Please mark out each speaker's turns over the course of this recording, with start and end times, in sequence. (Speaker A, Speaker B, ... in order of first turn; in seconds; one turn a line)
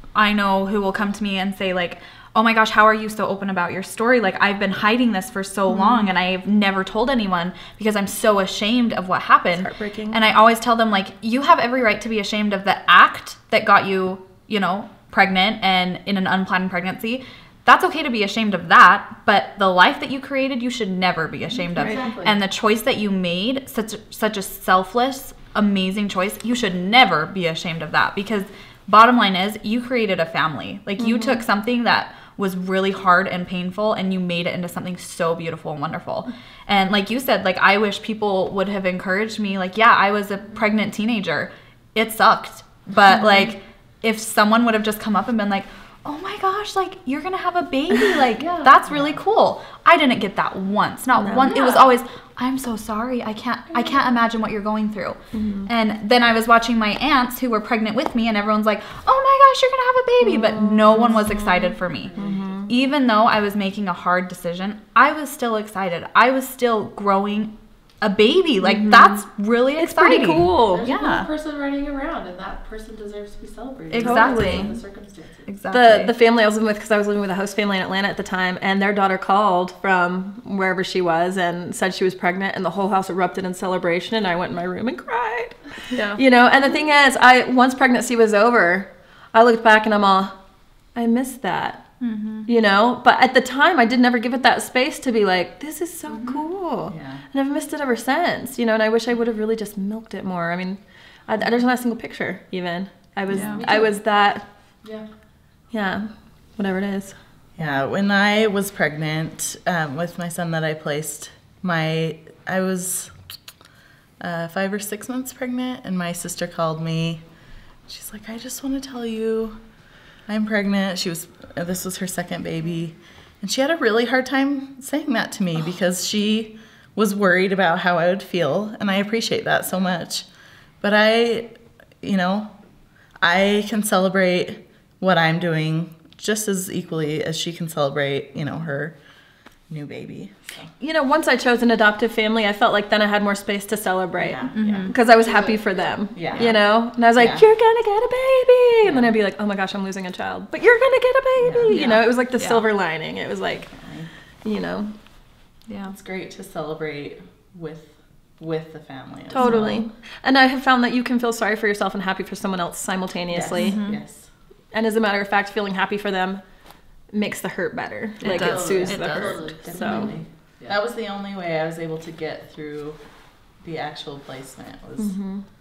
Speaker A: 0.1-62.1
Speaker B: 5.7-6.1
Speaker B: 9.6-10.2
Speaker B: 21.8-22.0
Speaker C: 21.8-22.3
Speaker D: 21.9-22.2
Speaker B: 31.0-31.4
Speaker D: 48.4-48.7
Speaker B: 51.2-51.8
Speaker B: 55.3-55.7
Speaker B: 60.2-62.7
Speaker C: 62.1-62.5
Speaker A: 62.7-71.3
Speaker B: 68.6-69.2
Speaker B: 69.8-70.9
Speaker D: 70.7-75.4
Speaker A: 73.9-74.8
Speaker C: 73.9-74.5
Speaker B: 74.0-74.7
Speaker A: 75.5-76.1
Speaker B: 75.7-90.3
Speaker A: 85.9-86.2
Speaker B: 91.0-91.9
Speaker A: 92.0-92.5
Speaker B: 92.5-104.5
Speaker A: 96.1-96.4
Speaker C: 96.9-97.2
Speaker A: 103.3-103.6
Speaker C: 103.3-103.8
Speaker B: 105.7-107.2
Speaker C: 107.5-113.2
Speaker C: 114.2-117.3
Speaker C: 117.9-119.6
Speaker C: 120.3-130.3
Speaker C: 130.8-132.6
Speaker C: 133.1-139.0
Speaker C: 139.7-140.7
Speaker B: 140.8-153.8
Speaker C: 144.2-147.4
Speaker A: 144.5-144.9
Speaker C: 148.8-149.1
Speaker C: 151.4-152.1
Speaker A: 152.4-152.7
Speaker C: 153.7-154.1
Speaker B: 154.4-154.9
Speaker A: 155.7-155.9
Speaker C: 155.9-159.9
Speaker B: 159.3-163.8
Speaker A: 159.4-159.7
Speaker C: 163.3-164.3
Speaker A: 163.5-164.0
Speaker B: 164.7-170.1
Speaker A: 168.2-170.1
Speaker C: 168.2-173.0
Speaker D: 168.4-170.2
Speaker C: 173.6-175.2
Speaker B: 175.0-175.4